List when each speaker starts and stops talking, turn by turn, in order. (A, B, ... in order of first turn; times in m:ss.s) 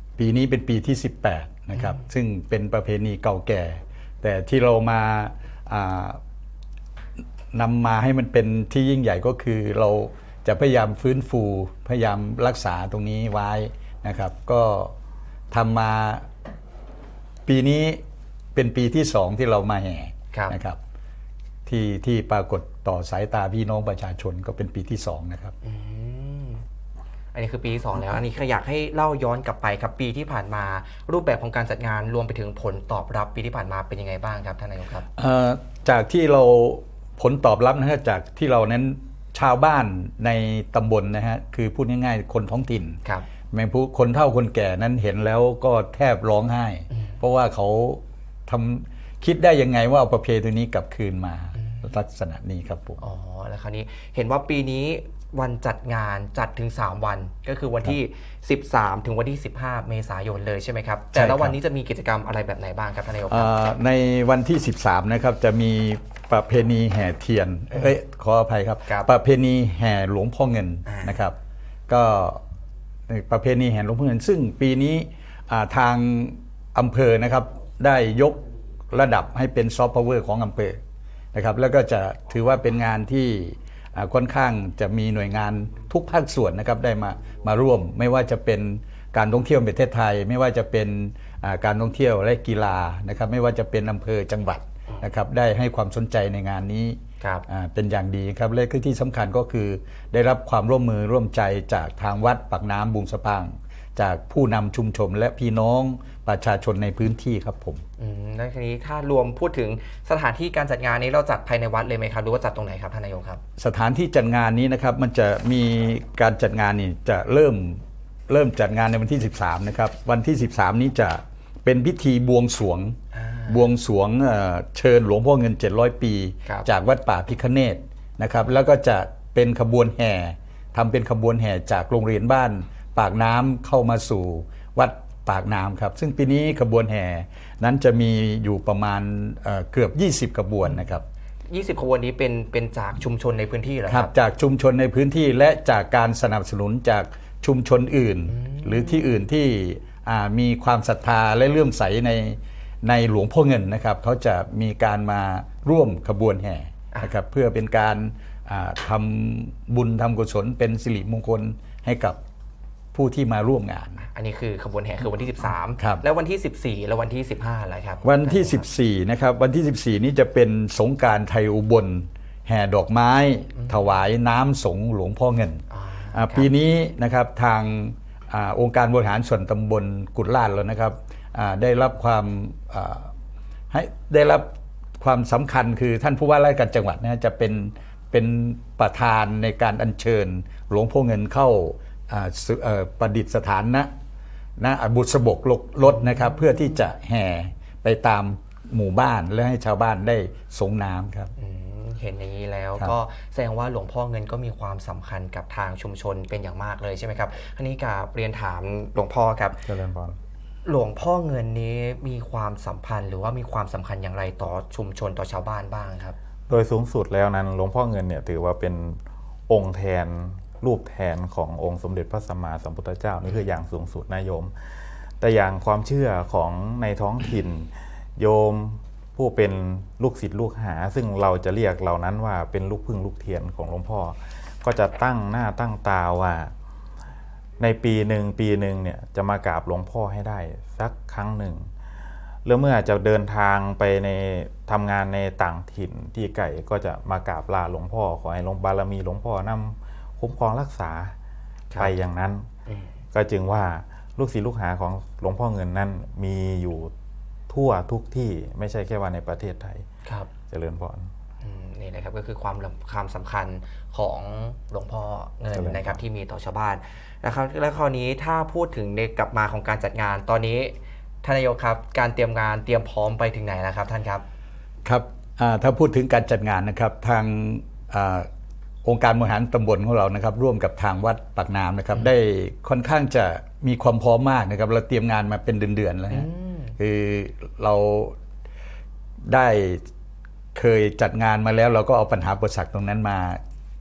0:00.2-0:06.2 A
0:07.5-0:14.9 A
0:15.5-0:16.3 A
0:17.5-0:18.0 A
0:18.6-0:20.8 A
0:21.7-0:25.5 A
0:25.6-0:26.6 B
0:27.3-0:35.1 B
0:35.2-0:43.0 A
0:43.5-0:53.0 A
0:51.6-0:51.9 B
0:53.0-1:03.5 B
1:01.1-1:01.6 A
1:03.3-1:11.4 A
1:10.9-1:11.1 B
1:11.9-1:12.4 A
1:13.1-1:20.8 A
1:21.3-1:47.8 A
1:37.2-1:37.5 B
1:48.0-1:53.4 B
1:53.6-2:03.0 A
2:03.1-2:03.7 B
2:03.5-2:21.0 A
2:21.5-2:24.1 B
2:23.9-2:42.2 A
2:28.3-2:29.0 B
2:42.9-2:44.0 A
2:44.0-2:48.6 B
2:45.8-2:46.0 A
2:48.0-3:03.1 A
2:55.7-2:56.5 B
3:03.7-3:13.9 A
3:14.6-3:21.3 A
3:21.4-3:29.6 B
3:29.6-3:30.2 C
3:30.7-3:36.2 B
3:36.5-3:44.5 C
3:45.2-3:56.5 C
3:57.6-4:01.7 C
4:02.4-4:11.1 C
4:11.8-4:12.4 C
4:13.1-4:16.9 C
4:17.5-4:19.8 C
4:20.5-4:21.1 C
4:21.4-4:34.2 B
4:25.5-4:26.0 C
4:34.8-4:38.3 A
4:38.8-4:48.2 A
4:46.1-4:46.8 B
4:49.2-4:49.8 A
4:50.5-4:53.4 A